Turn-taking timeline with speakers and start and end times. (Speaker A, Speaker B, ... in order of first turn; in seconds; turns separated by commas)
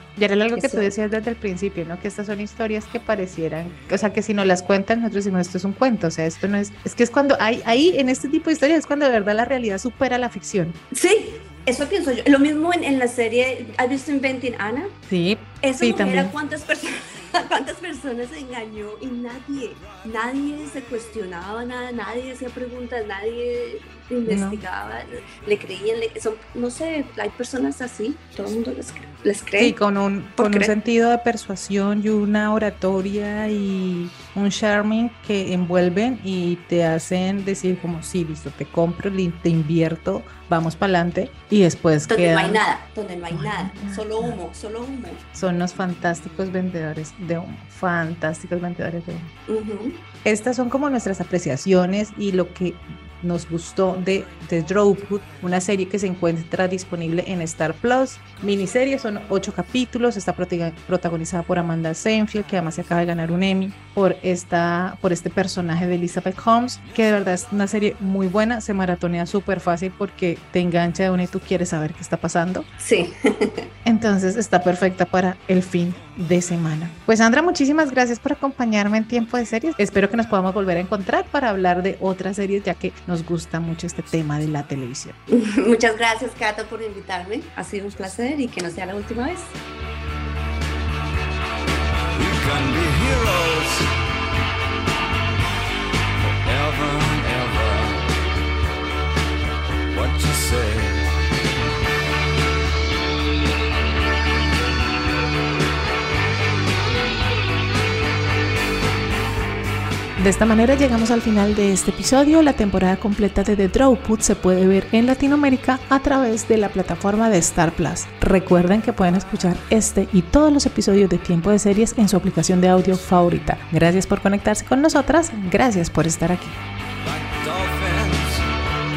Speaker A: 0.2-10.8, Speaker B: 0.5-0.9, Speaker B: 10.9-14.9, Speaker A: 15.1-16.3, Speaker B: 15.6-29.8, Speaker A: 24.3-24.6, Speaker A: 29.6-42.6, Speaker B: 30.4-30.7, Speaker B: 42.1-45.2, Speaker A: 43.3-44.3, Speaker A: 45.3-49.3, Speaker B: 49.5-50.0, Speaker A: 50.2-72.7, Speaker B: 72.8-73.7, Speaker A: 73.8-85.2, Speaker B: 85.3-89.5, Speaker C: 92.1-93.9, Speaker C: 96.3-98.1, Speaker C: 99.9-101.1, Speaker A: 110.2-126.6, Speaker C: 127.0-128.4